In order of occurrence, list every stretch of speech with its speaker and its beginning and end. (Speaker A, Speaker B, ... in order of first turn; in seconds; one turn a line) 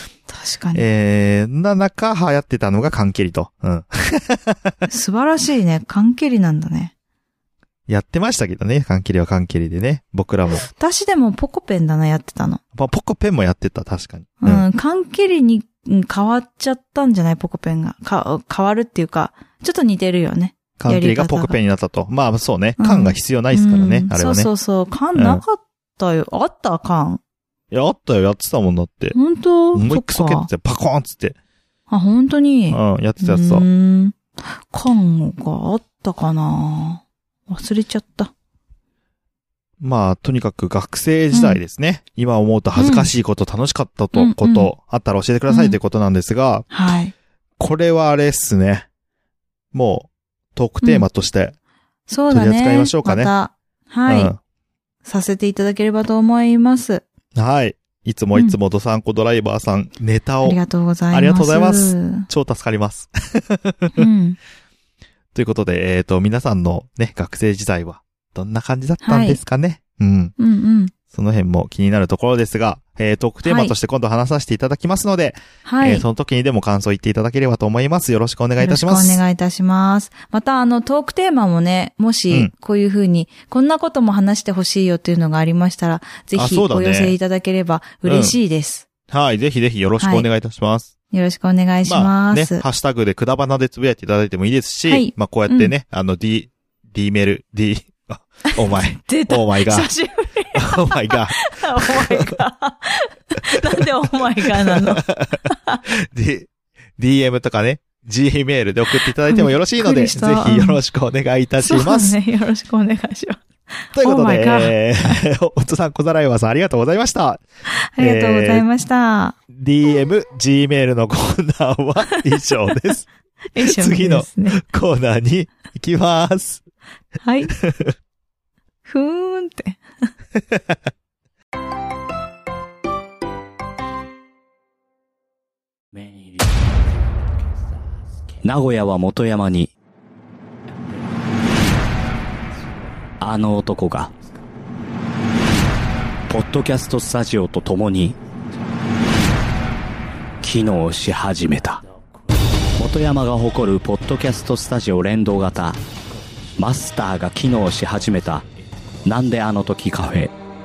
Speaker A: 0.3-0.8
Speaker B: 0.7-4.7
Speaker A: 4.9-6.9
Speaker B: 7.9-10.7
Speaker A: 10.6-12.6
Speaker B: 12.7-14.7
Speaker A: 14.4-21.6
Speaker B: 20.8-24.5
Speaker A: 22.8-27.2
Speaker B: 25.1-25.4
Speaker B: 27.7-29.1
Speaker A: 29.1-30.5
Speaker B: 29.7-31.4
Speaker A: 31.9-38.3
Speaker B: 32.7-33.6
Speaker B: 39.8-46.7
Speaker A: 41.3-41.6
Speaker A: 42.8-43.1
Speaker A: 44.1-44.7
Speaker A: 45.5-45.8
Speaker A: 46.7-47.1
Speaker B: 47.6-48.9
Speaker B: 49.7-51.5
Speaker A: 50.8-51.1
Speaker A: 52.1-54.3
Speaker B: 52.3-53.3
Speaker B: 54.1-54.4
Speaker A: 55.0-57.0
Speaker B: 57.4-60.6
Speaker A: 60.4-62.3
Speaker B: 61.1-64.0
Speaker A: 64.0-64.4
Speaker B: 65.3-70.3
Speaker A: 69.0-69.4
Speaker A: 70.4-70.9
Speaker B: 71.1-79.2
Speaker A: 73.4-73.7
Speaker A: 75.6-76.0
Speaker A: 78.6-88.8
Speaker B: 86.3-87.1
Speaker B: 88.0-88.4
Speaker B: 89.1-90.9
Speaker A: 90.0-90.3
Speaker A: 91.1-92.6
Speaker B: 91.9-99.9
Speaker A: 94.9-95.7
Speaker A: 99.0-105.8
Speaker B: 100.5-102.4
Speaker B: 104.4-112.2
Speaker A: 109.2-110.8
Speaker A: 111.6-115.2
Speaker B: 113.9-117.4
Speaker A: 117.7-119.4
Speaker B: 118.0-118.7
Speaker B: 119.5-123.1
Speaker A: 123.5-124.6
Speaker B: 123.6-126.6
Speaker A: 127.2-127.5
Speaker B: 127.6-127.9
Speaker A: 128.9-130.1
Speaker C: 138.4-139.7
Speaker C: 143.2-144.1
Speaker C: 146.3-148.2
Speaker C: 150.4-151.8
Speaker C: 152.8-155.8
Speaker C: 156.6-158.4
Speaker C: 159.1-160.3